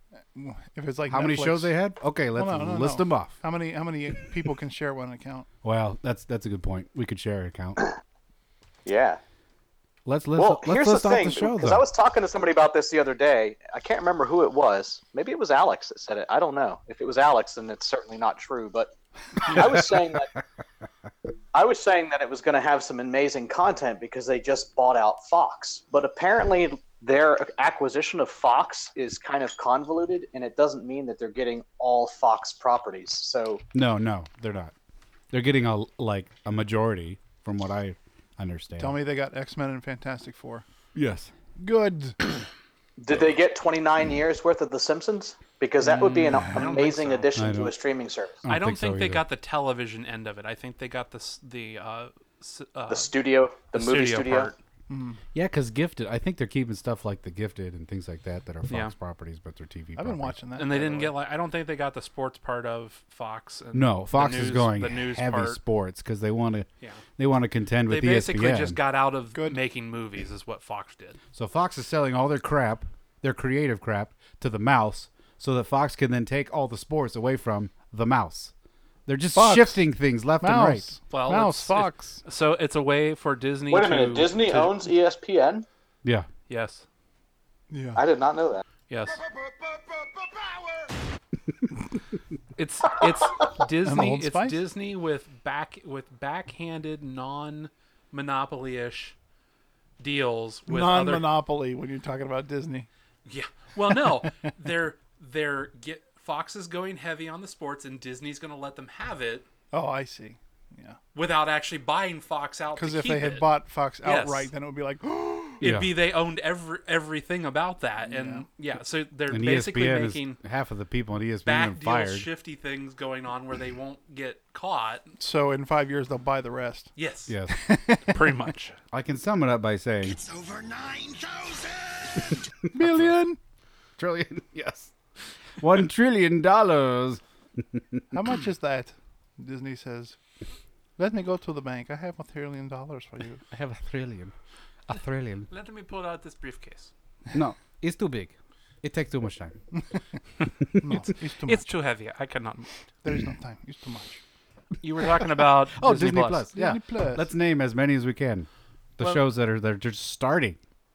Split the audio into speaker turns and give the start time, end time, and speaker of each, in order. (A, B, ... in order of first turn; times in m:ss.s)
0:00.3-0:01.8 A
0:01.1-0:03.4 B
0:02.3-0:05.5 A
0:05.6-0:07.8 B
0:08.8-0:09.2 C
0:10.0-0:11.8 B
0:10.4-0:20.3 C
0:21.5-0:33.6 C
0:33.7-0:34.7 B
0:35.3-0:39.0 B
0:38.8-0:40.6 A
0:40.9-0:41.3 B
0:41.6-0:42.2 A
0:43.0-0:48.4 C
0:45.9-0:47.3 D
0:47.3-0:47.7 B
0:48.4-0:49.2 B
0:48.5-0:54.6 D
0:52.9-0:54.5 C
0:54.9-0:55.2 A
0:55.3-1:00.4 B
0:58.7-0:58.9 D
1:00.0-1:01.1 A
1:00.6-1:05.6 D
1:03.7-1:08.8 B
1:07.9-1:11.2 D
1:09.3-1:09.6 A
1:11.3-1:18.5 B
1:19.1-1:20.9 B
1:19.3-1:19.8 A
1:20.4-1:22.2 A
1:21.1-1:24.8 D
1:23.7-1:25.6 C
1:26.5-1:26.8 D
1:27.7-1:28.0 A
1:28.0-1:28.6 C
1:28.9-1:29.2 D
1:32.6-1:39.1 D
1:33.8-1:34.6 A
1:40.0-1:41.3 D
1:40.7-1:42.9 A
1:43.2-1:49.4 D
1:49.7-1:51.0 A
1:51.1-1:54.5 D
1:52.8-1:55.6 A
1:55.6-2:00.4 D
1:55.6-1:55.9 B
1:58.1-1:58.4 A
1:59.3-2:02.3 B
2:01.4-2:05.1 D
2:05.2-2:06.9 A
2:07.0-2:07.4 D
2:07.3-2:07.6 B
2:07.5-2:08.5 A
2:08.0-2:08.8 D
2:08.9-2:10.2 B
2:10.0-2:12.4 E
2:12.7-2:13.4 A
2:14.0-2:14.9 B
2:15.6-2:18.0 B
2:18.1-2:20.2 A
2:21.0-2:23.4 A
2:23.5-2:24.3 B
2:24.9-2:25.5 B
2:25.5-2:26.9 D
2:27.3-2:29.6 B
2:30.8-2:31.6 A
2:31.4-2:32.8 D
2:33.0-2:34.2 A
2:34.8-2:36.5 D
2:35.7-2:40.6 B
2:36.5-2:37.3 A